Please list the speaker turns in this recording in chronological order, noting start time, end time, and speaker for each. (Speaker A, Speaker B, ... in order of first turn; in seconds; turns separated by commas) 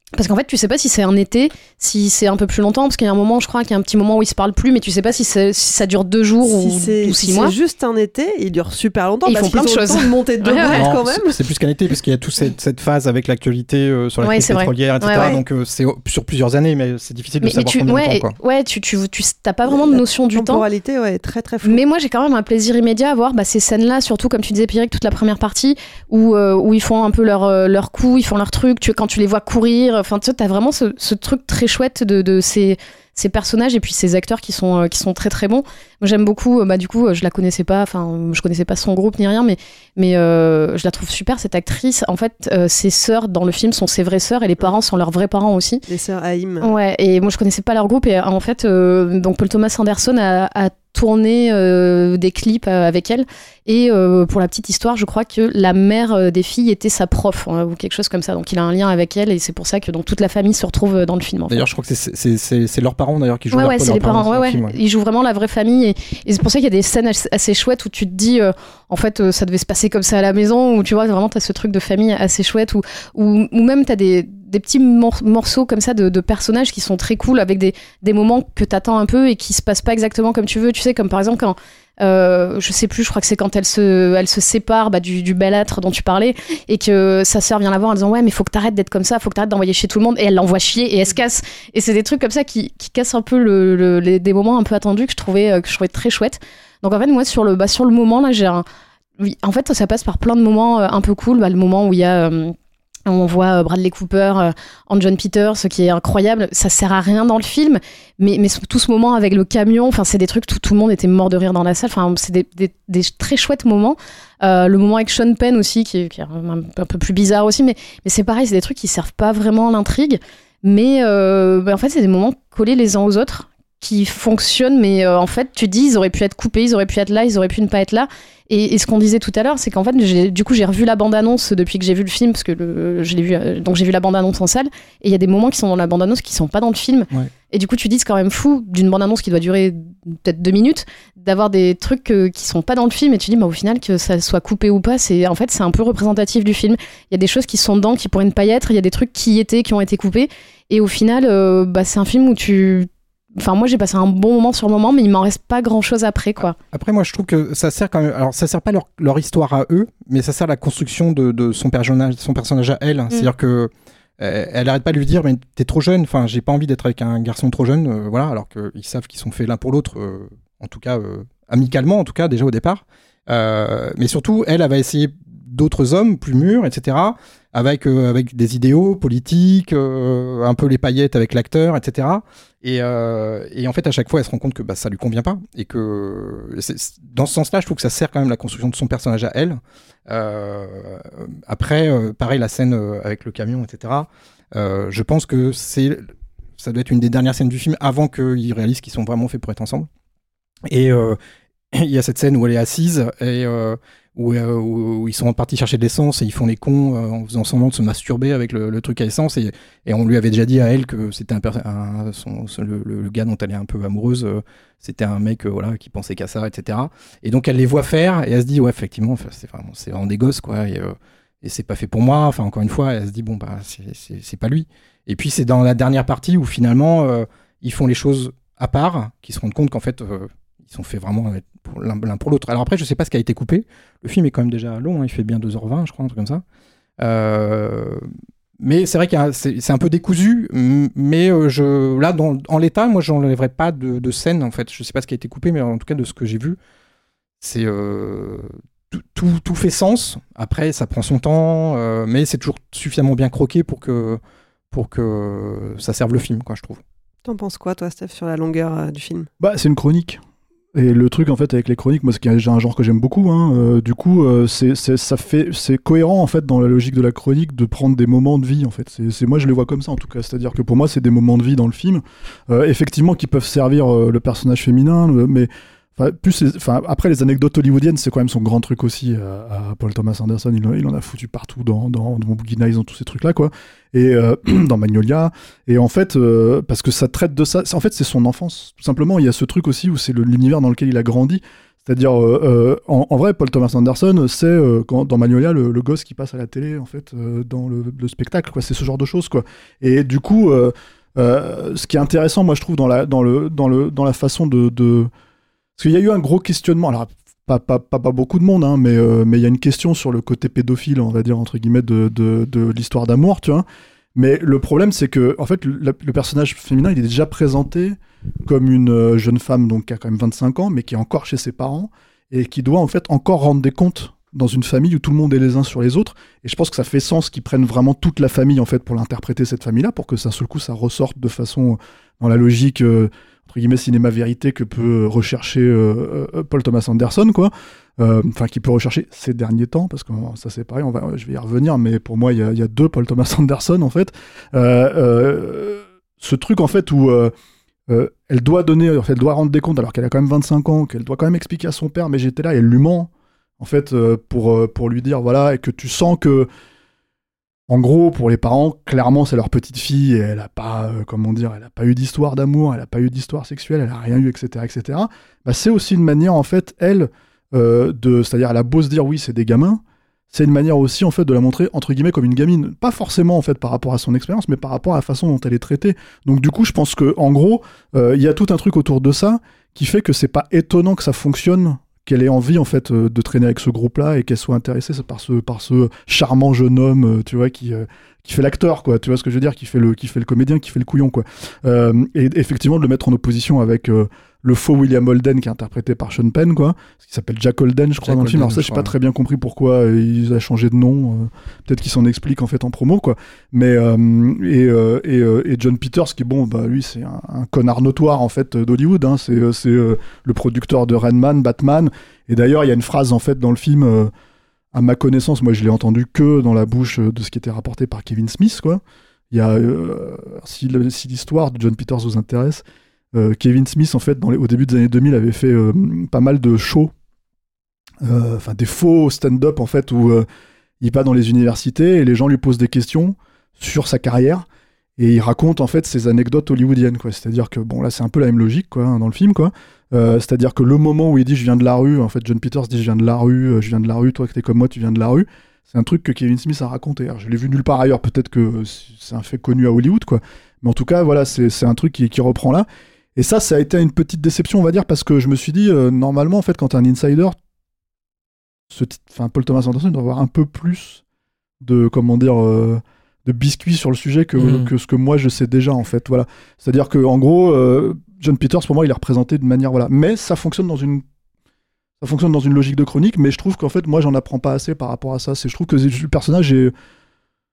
Speaker A: 0.2-7.5, Speaker B: 6.4-11.4, Speaker A: 9.2-10.8, Speaker C: 10.6-18.3, Speaker A: 14.2-15.4, Speaker B: 15.1-15.4, Speaker A: 17.4-20.6, Speaker B: 19.7-21.8, Speaker A: 21.6-45.8, Speaker B: 45.9-46.7, Speaker A: 46.6-61.6, Speaker C: 61.5-64.8, Speaker A: 63.5-98.6, Speaker A: 99.2-102.5, Speaker A: 103.1-156.5, Speaker C: 156.7-196.0, Speaker C: 196.6-199.9, Speaker C: 200.7-201.2, Speaker C: 201.7-236.4, Speaker C: 237.0-238.1, Speaker C: 238.6-246.6, Speaker C: 247.4-254.2, Speaker C: 254.7-256.8, Speaker B: 257.2-259.3, Speaker D: 259.4-260.2, Speaker D: 260.8-305.1, Speaker D: 305.8-347.3, Speaker D: 347.9-356.5, Speaker D: 357.7-414.1, Speaker C: 398.0-398.9, Speaker D: 414.7-422.6, Speaker D: 423.1-426.9, Speaker D: 428.0-430.2, Speaker D: 430.8-434.5, Speaker D: 435.0-457.4, Speaker D: 458.7-461.0, Speaker D: 461.6-471.0, Speaker C: 464.4-464.7, Speaker D: 472.0-476.7